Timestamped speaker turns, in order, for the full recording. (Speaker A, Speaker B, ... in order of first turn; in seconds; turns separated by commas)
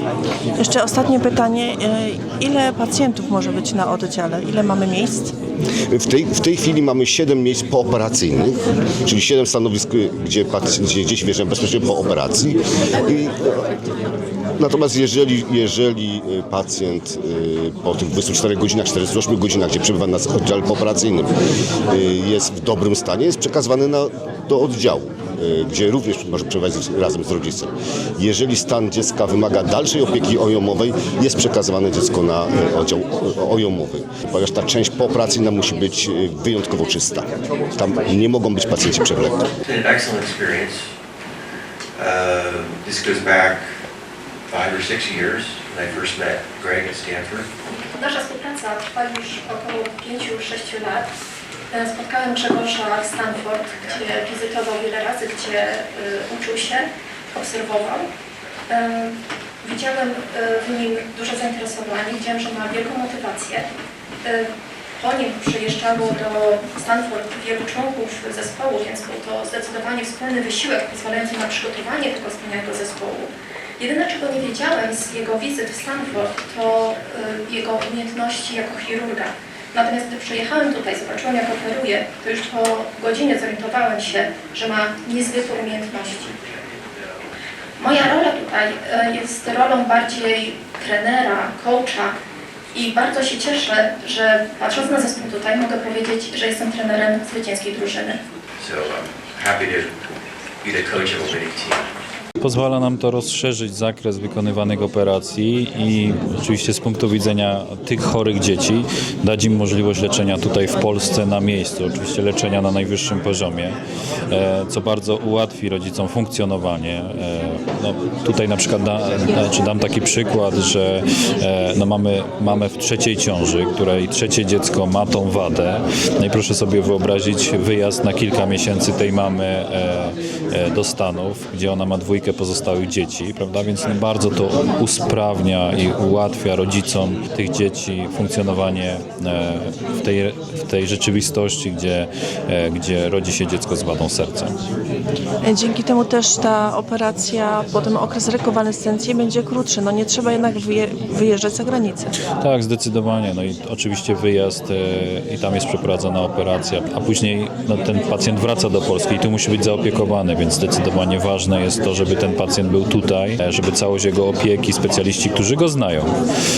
Speaker A: 0.6-5.3, Speaker B: 5.9-13.6, Speaker B: 14.6-21.3, Speaker B: 21.9-39.5, Speaker C: 39.6-40.9, Speaker C: 42.0-43.8, Speaker C: 44.5-47.5, Speaker D: 47.9-51.1, Speaker D: 51.7-58.1, Speaker D: 58.7-63.7, Speaker D: 64.2-86.4, Speaker D: 87.8-92.2, Speaker D: 92.7-98.2, Speaker C: 98.6-101.9, Speaker E: 102.4-113.8, Speaker E: 114.3-144.6, Speaker A: 145.4-152.1, Speaker E: 152.4-166.1